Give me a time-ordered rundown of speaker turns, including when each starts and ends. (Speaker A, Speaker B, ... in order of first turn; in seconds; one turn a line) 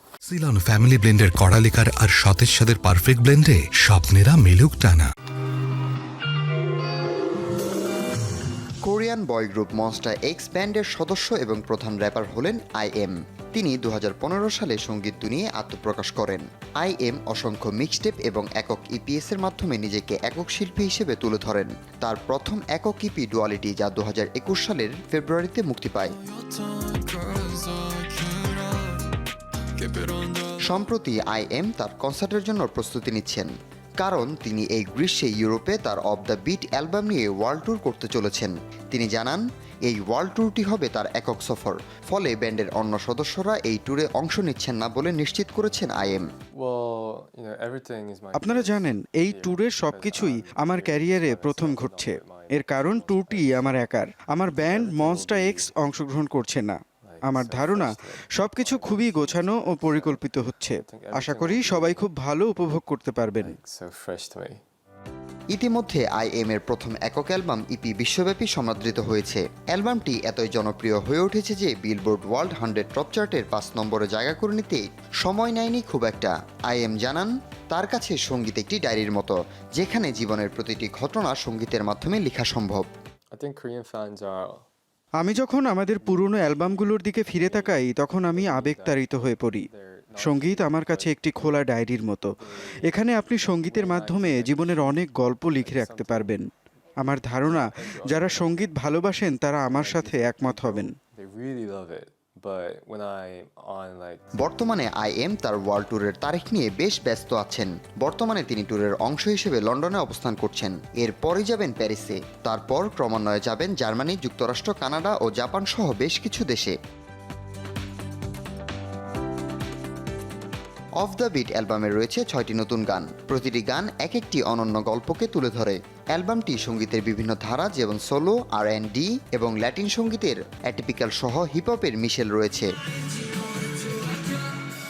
Speaker A: 0.3-5.1
Speaker B: 8.8-26.2
Speaker C: 26.3-28.8
Speaker C: 29.8-30.5
Speaker B: 30.6-46.3
Speaker C: 46.5-53.8
Speaker D: 48.3-63.5
Speaker C: 54.5-55.7
Speaker C: 57.0-62.1
Speaker C: 63.4-64.6
Speaker B: 65.5-82.9
Speaker C: 83.3-84.6
Speaker D: 85.2-100.9
Speaker C: 86.0-91.6
Speaker C: 92.3-96.4
Speaker C: 97.4-98.7
Speaker C: 99.7-104.4
Speaker B: 104.4-116.7
Speaker B: 121.0-132.7